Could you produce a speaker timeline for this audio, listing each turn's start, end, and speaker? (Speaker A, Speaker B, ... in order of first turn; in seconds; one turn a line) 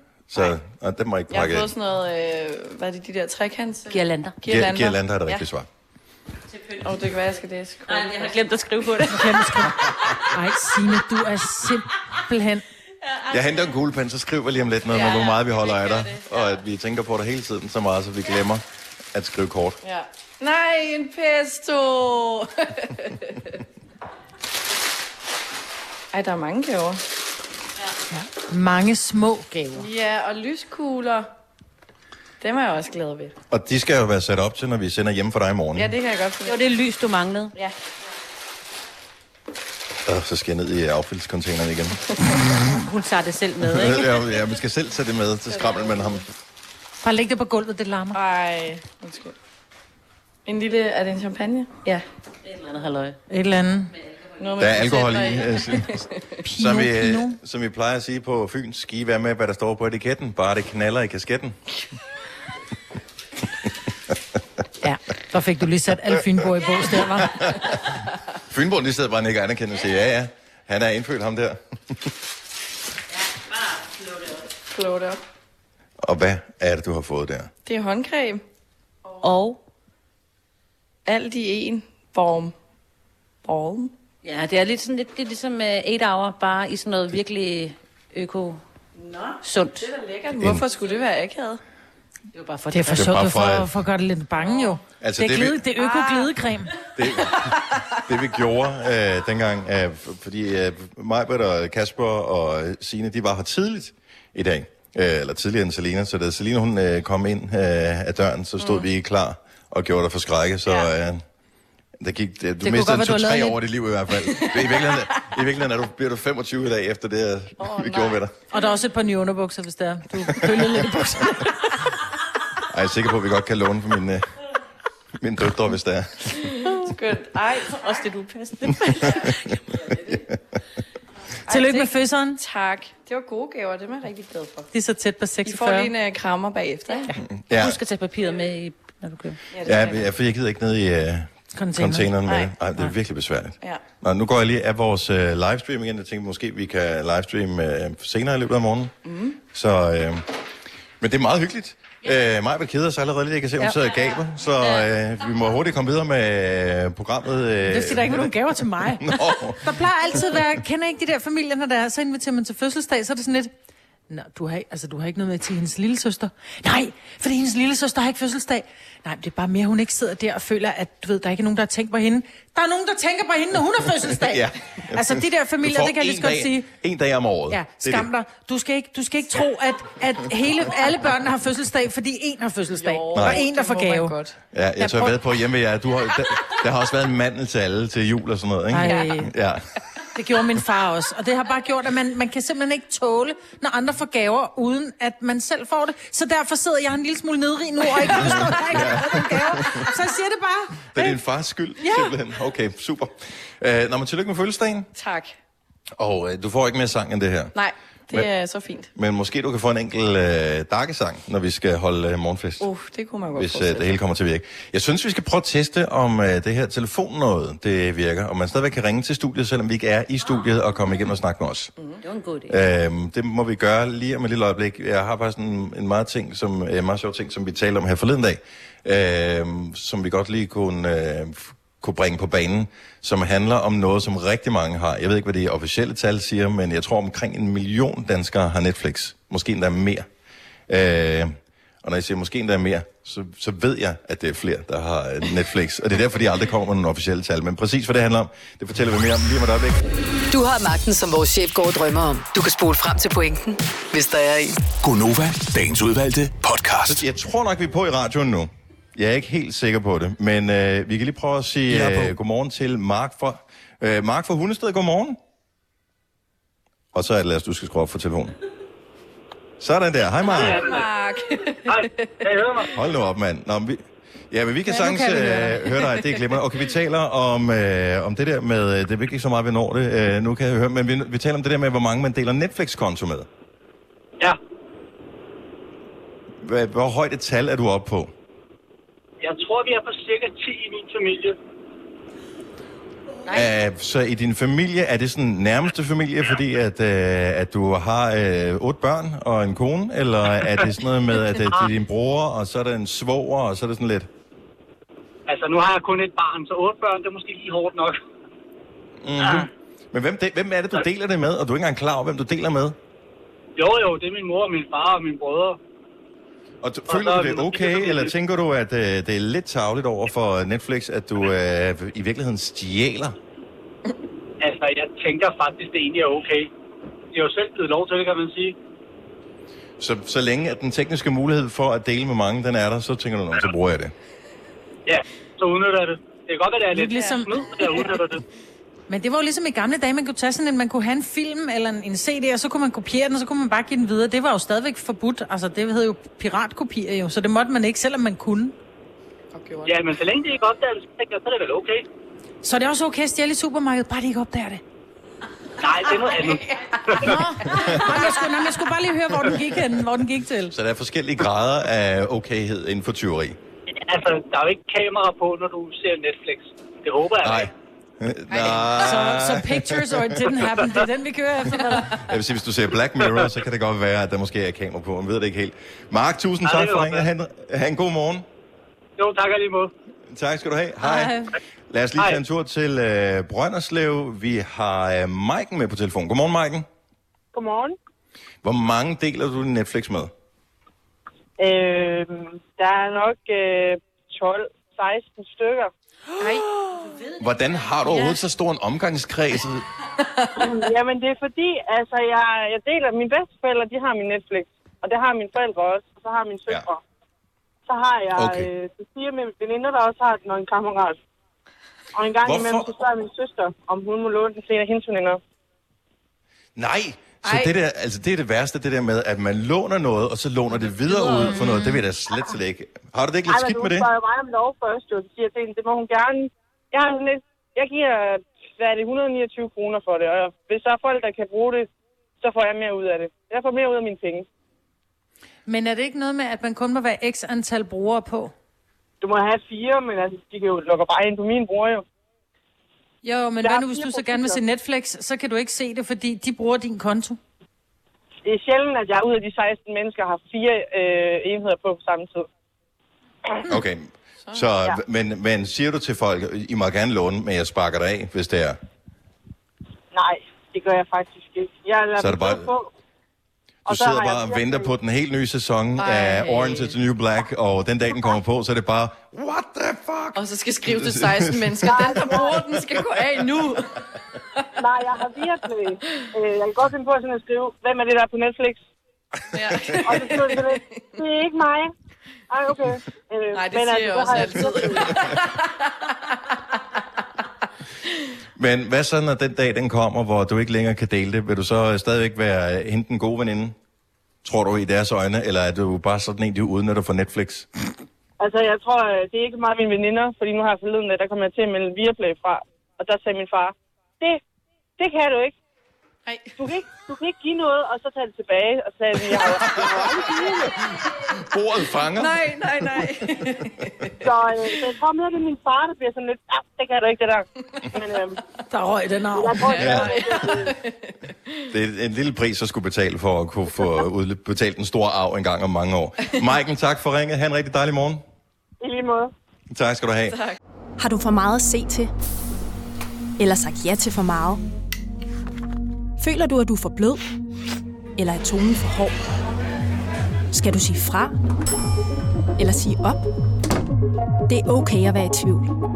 Speaker A: 0.3-1.7
Speaker B: 1.3-5.4
Speaker C: 3.9-4.3
Speaker A: 4.4-5.7
Speaker C: 6.5-10.2
Speaker B: 6.8-8.4
Speaker D: 9.1-12.6
Speaker C: 13.0-13.7
Speaker A: 13.3-19.8
Speaker B: 14.9-15.4
Speaker C: 16.0-16.4
Speaker B: 19.8-23.6
Speaker B: 26.1-27.0
Speaker D: 28.1-29.9
Speaker B: 29.8-31.3
Speaker B: 32.4-33.3
Speaker A: 33.5-35.9
Speaker B: 35.8-36.6
Speaker C: 36.4-37.5
Speaker A: 40.0-42.0
Speaker C: 42.8-44.3
Speaker A: 43.6-46.2
Speaker B: 45.5-46.2
Speaker D: 47.0-48.2
Speaker B: 48.1-49.3
Speaker B: 50.5-52.0
Speaker C: 52.4-53.2
Speaker D: 53.3-53.9
Speaker C: 54.1-54.6
Speaker B: 54.4-56.4
Speaker A: 54.6-61.6
Speaker D: 56.4-57.4
Speaker D: 64.8-67.4
Speaker A: 67.0-67.9
Speaker A: 68.5-72.1
Speaker C: 73.6-74.4
Speaker B: 74.7-75.2
Speaker A: 76.0-77.5
Speaker B: 77.6-78.4
Speaker C: 79.2-79.6
Speaker B: 81.0-82.5
Speaker B: 83.4-83.9
Speaker C: 84.2-88.6
Speaker B: 89.0-91.6
Speaker C: 89.4-89.8
Speaker A: 90.4-90.6
Speaker C: 92.3-93.1
Speaker D: 92.7-96.7
Speaker A: 92.8-93.7
Speaker A: 95.0-95.6
Speaker B: 95.8-96.3
Speaker A: 97.0-111.2
Speaker B: 97.3-98.0
Speaker B: 108.6-108.8
Speaker A: 112.0-118.3
Speaker D: 112.6-113.6
Speaker B: 114.3-115.1
Speaker B: 117.6-118.2
Speaker D: 118.5-121.7
Speaker A: 120.4-120.6
Speaker A: 122.7-124.2
Speaker A: 125.2-126.5
Speaker B: 126.4-130.2
Speaker B: 131.5-134.7
Speaker D: 131.5-132.4
Speaker D: 134.7-135.9
Speaker B: 135.4-137.1
Speaker A: 137.3-137.8
Speaker C: 137.5-139.4
Speaker B: 139.5-140.0
Speaker A: 139.6-150.2
Speaker D: 141.5-142.1
Speaker B: 142.2-142.5
Speaker B: 149.0-149.4
Speaker A: 151.0-159.7
Speaker C: 154.6-154.9
Speaker D: 157.7-163.5
Speaker D: 164.1-176.7
Speaker A: 174.0-178.1
Speaker D: 177.5-184.2
Speaker B: 182.7-184.4
Speaker A: 183.1-183.4
Speaker A: 184.5-189.6
Speaker D: 184.8-185.2
Speaker D: 188.7-189.3
Speaker B: 188.8-189.2
Speaker D: 190.1-201.2
Speaker A: 198.1-199.9
Speaker A: 200.9-204.9
Speaker D: 201.8-202.1
Speaker B: 204.9-205.3
Speaker A: 206.0-207.5
Speaker B: 207.5-208.9
Speaker A: 208.9-212.7
Speaker B: 212.6-213.9
Speaker A: 213.3-221.7
Speaker C: 222.0-222.6
Speaker A: 222.5-240.1
Speaker A: 240.7-249.8
Speaker E: 250.3-254.6
Speaker F: 254.8-257.0
Speaker A: 256.8-265.2
Speaker F: 261.7-262.1
Speaker A: 266.9-268.4
Speaker A: 269.6-270.7
Speaker B: 270.2-272.2
Speaker G: 270.3-270.9
Speaker G: 271.6-272.7
Speaker A: 272.7-283.3
Speaker D: 274.7-275.7
Speaker A: 286.4-288.1
Speaker G: 289.2-291.4
Speaker A: 293.3-304.1
Speaker G: 305.3-308.0
Speaker A: 309.0-312.8
Speaker G: 313.6-315.6
Speaker A: 316.6-323.2
Speaker G: 316.9-318.1
Speaker G: 324.4-326.5
Speaker G: 327.1-328.5
Speaker A: 329.8-333.9
Speaker G: 334.9-338.2
Speaker D: 336.7-337.3
Speaker D: 338.9-348.5
Speaker B: 349.3-349.8
Speaker G: 349.6-351.8
Speaker D: 352.4-354.6
Speaker G: 355.6-357.2
Speaker B: 355.9-357.0
Speaker D: 357.0-360.5
Speaker A: 357.5-357.8
Speaker A: 360.5-363.4
Speaker G: 363.8-367.5
Speaker A: 367.2-370.3
Speaker B: 368.3-368.8
Speaker D: 368.7-372.0
Speaker A: 371.9-378.2
Speaker G: 376.4-377.1
Speaker G: 379.0-379.7
Speaker A: 380.1-386.7
Speaker D: 380.8-381.3
Speaker H: 387.3-387.8
Speaker A: 388.4-390.1
Speaker H: 391.4-395.7
Speaker B: 396.2-396.9
Speaker C: 396.8-397.3
Speaker A: 397.2-399.6
Speaker B: 400.0-400.4
Speaker H: 400.3-406.8
Speaker H: 407.7-411.0
Speaker A: 408.1-408.5
Speaker H: 411.9-415.2
Speaker A: 412.2-412.7
Speaker A: 416.6-423.9
Speaker B: 417.2-417.5
Speaker D: 421.2-421.8
Speaker H: 423.3-431.7
Speaker H: 432.2-434.2
Speaker D: 435.5-438.3
Speaker H: 439.0-441.8
Speaker D: 443.0-447.2
Speaker H: 443.4-444.4
Speaker H: 448.2-452.3
Speaker A: 453.4-458.6
Speaker H: 459.9-462.7
Speaker A: 462.0-462.5
Speaker A: 463.6-473.0
Speaker H: 463.7-464.7
Speaker B: 465.8-466.8
Speaker B: 470.1-473.8
Speaker H: 471.6-472.4
Speaker H: 474.6-478.6
Speaker B: 479.3-480.9
Speaker H: 479.8-481.7
Speaker H: 482.3-485.1
Speaker B: 483.3-486.3
Speaker A: 488.4-493.5
Speaker A: 494.2-497.5
Speaker H: 498.2-504.2
Speaker H: 504.8-505.3
Speaker B: 506.1-506.4
Speaker H: 506.4-510.6
Speaker A: 511.2-513.0
Speaker B: 511.9-514.6
Speaker H: 514.0-518.2
Speaker D: 518.5-519.8
Speaker H: 519.1-520.5
Speaker B: 519.5-521.4
Speaker A: 519.6-520.0
Speaker A: 521.5-528.0
Speaker H: 528.6-529.1
Speaker A: 529.5-530.2
Speaker I: 530.8-531.9
Speaker I: 533.2-534.4
Speaker I: 536.0-537.0
Speaker I: 538.0-539.0
Speaker I: 540.3-541.1
Speaker I: 542.4-543.0
Speaker I: 544.3-545.5